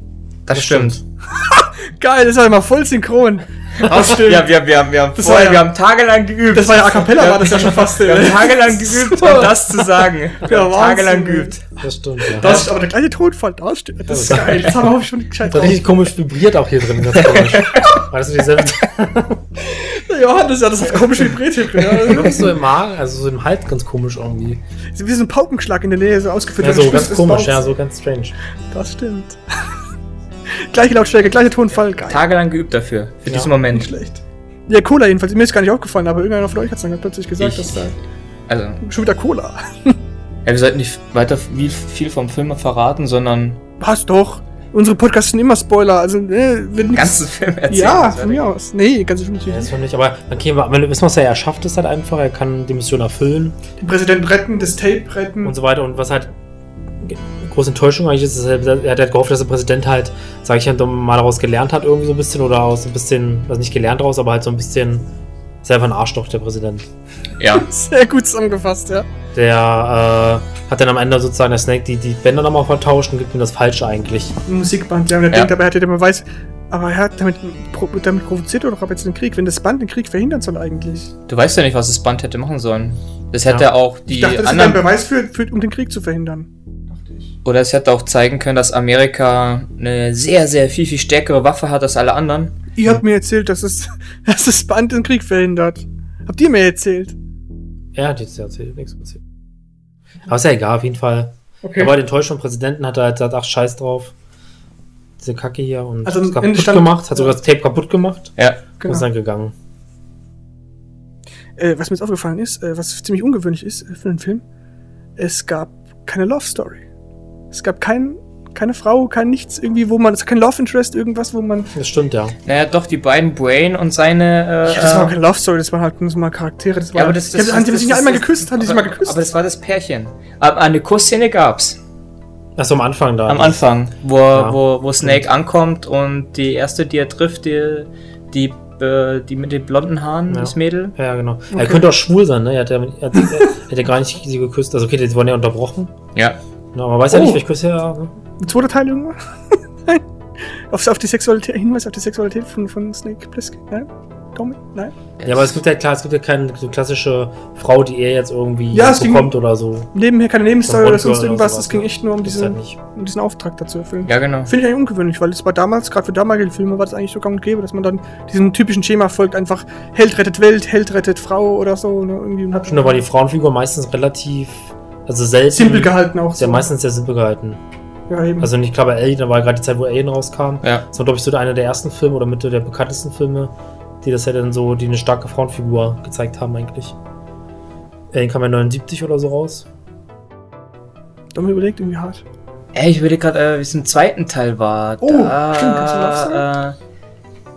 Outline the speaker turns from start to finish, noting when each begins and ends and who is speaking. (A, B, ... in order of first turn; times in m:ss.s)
0:00.5-0:01.0 A
0:00.5-0:01.0 B
0:01.3-0:04.5 C
0:03.8-0:11.6 A
0:05.2-0:05.7 C
0:06.5-0:11.6 C
0:11.8-0:12.7 B
0:12.4-0:15.8 C
0:12.4-0:12.7 A
0:14.1-0:14.9 B
0:15.5-0:19.4 B
0:17.1-0:18.0 A
0:19.7-0:22.5 C
0:22.0-0:24.6 B
0:25.0-0:27.7 C
0:26.6-0:28.4 B
0:28.7-0:29.4 C
0:30.5-0:32.2 C
0:32.0-0:33.9 A
0:33.7-0:38.0 C
0:37.4-0:37.9 A
0:38.5-0:38.8 A
0:38.8-0:40.0 C
0:40.4-0:43.6 A
0:43.8-0:49.7 C
0:46.9-0:48.5 A
0:49.5-0:53.6 B
0:53.8-0:55.6 C
0:55.4-0:56.3 B
0:57.0-1:05.1 B
1:05.6-1:06.8 B
1:07.4-1:07.7 A
1:07.5-1:09.1 C
1:09.4-1:14.4 B
1:14.5-1:21.1 C
1:21.3-1:24.8 A
1:24.1-1:27.3 C
1:27.4-1:32.6 A
1:32.8-1:37.2 C
1:38.0-1:39.2 B
1:40.3-1:44.1 B
1:41.6-1:41.9 C
1:45.2-1:49.5 B
1:46.1-1:47.3 C
1:48.4-1:48.6 A
1:48.8-1:49.0 C
1:51.6-1:54.4 C
1:55.2-1:56.8 C
1:57.5-2:01.7 C
2:01.8-2:02.4 B
2:02.4-2:05.2 A
2:04.7-2:09.3 C
2:07.0-2:11.8 A
2:12.6-2:13.6 B
2:13.3-2:21.0 A
2:14.3-2:15.2 B
2:20.3-2:25.9 B
2:21.5-2:21.8 C
2:26.2-2:26.4 A
2:26.7-2:28.2 B
2:27.1-2:27.4 C
2:28.4-2:30.0 C
2:30.7-2:34.9 C
2:35.2-2:35.6 A
2:35.2-2:39.9 B
2:38.7-2:39.3 C
2:39.9-2:53.0 C
2:40.6-2:42.8 B
2:44.0-2:44.5 A
2:52.7-2:57.6 B
2:55.5-2:56.7 C
2:58.1-2:58.5 C
2:58.4-3:07.0 B
3:08.1-3:09.7 B
3:11.3-3:12.2 C
3:12.7-3:16.8 A
3:15.0-3:16.4 C